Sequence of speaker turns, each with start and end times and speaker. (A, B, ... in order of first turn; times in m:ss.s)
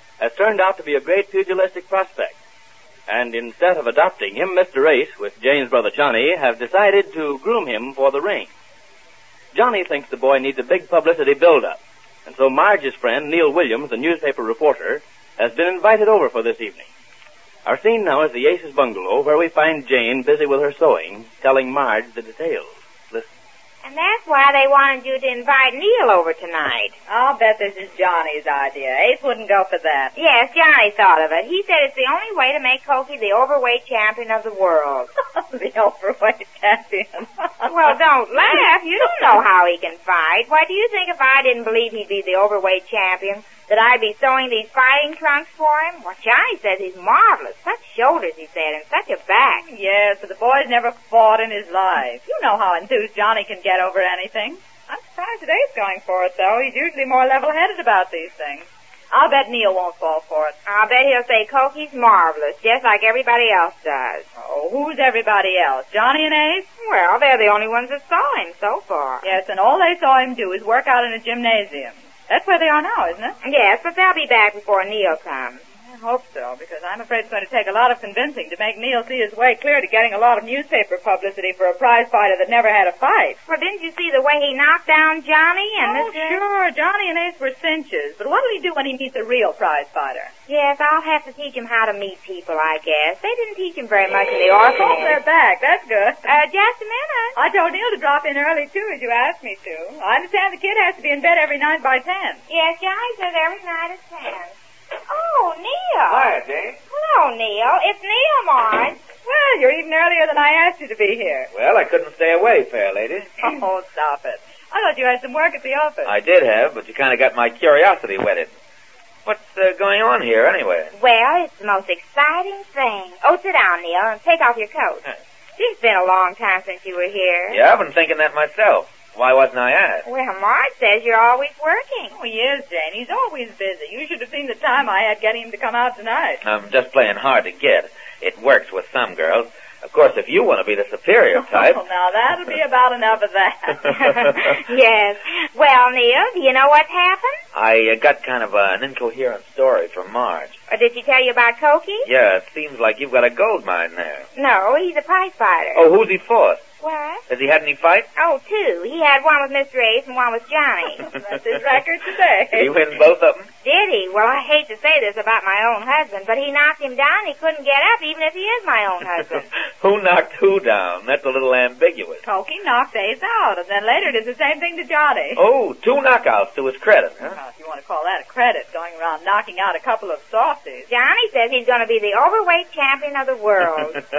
0:00.2-0:02.4 A
0:03.1-0:08.5 A
0:09.5-0:16.9 A
0:17.6-0:23.3 A
0:23.8-0:27.0 B
0:27.1-0:30.1 C
0:30.2-0:35.1 B
0:35.2-0:38.6 C
0:37.7-0:49.6 B
0:39.1-0:39.4 C
0:49.6-1:00.6 C
1:00.7-1:04.2 B
1:04.4-1:06.7 C
1:06.8-1:09.3 B
1:09.2-1:13.4 C
1:13.4-1:15.6 B
1:15.8-1:23.4 C
1:23.5-1:26.4 B
1:25.8-1:30.3 C
1:30.5-1:35.2 B
1:34.8-1:36.4 C
1:36.2-1:37.4 B
1:37.4-1:42.4 C
1:42.5-1:44.6 B
1:45.1-1:46.3 B
1:46.1-1:46.8 D
1:46.9-1:49.0 B
1:49.2-1:51.5 C
1:51.5-1:53.5 D
1:53.4-1:56.1 C
1:56.0-1:58.5 D
1:59.2-2:00.9 D
2:01.0-2:05.0 B
2:05.6-2:07.6 B
2:07.5-2:10.0 D
2:10.0-2:12.2 B
2:12.1-2:16.4 C
2:16.4-2:21.8 D
2:21.4-2:23.9 C
2:23.8-2:27.4 B
2:27.5-2:30.6 D
2:30.7-2:32.1 B
2:32.0-2:34.3 D
2:34.4-2:35.8 B
2:35.7-2:36.6 D
2:36.8-2:37.2 B
2:37.3-2:38.1 D
2:38.2-2:41.1 B
2:41.0-2:42.7 C
2:42.5-2:43.5 D
2:43.6-2:49.5 B
2:49.8-2:52.2 D
2:52.2-2:55.4 C
2:55.4-2:57.4 D
2:57.2-3:00.9 C
3:00.9-3:04.0 B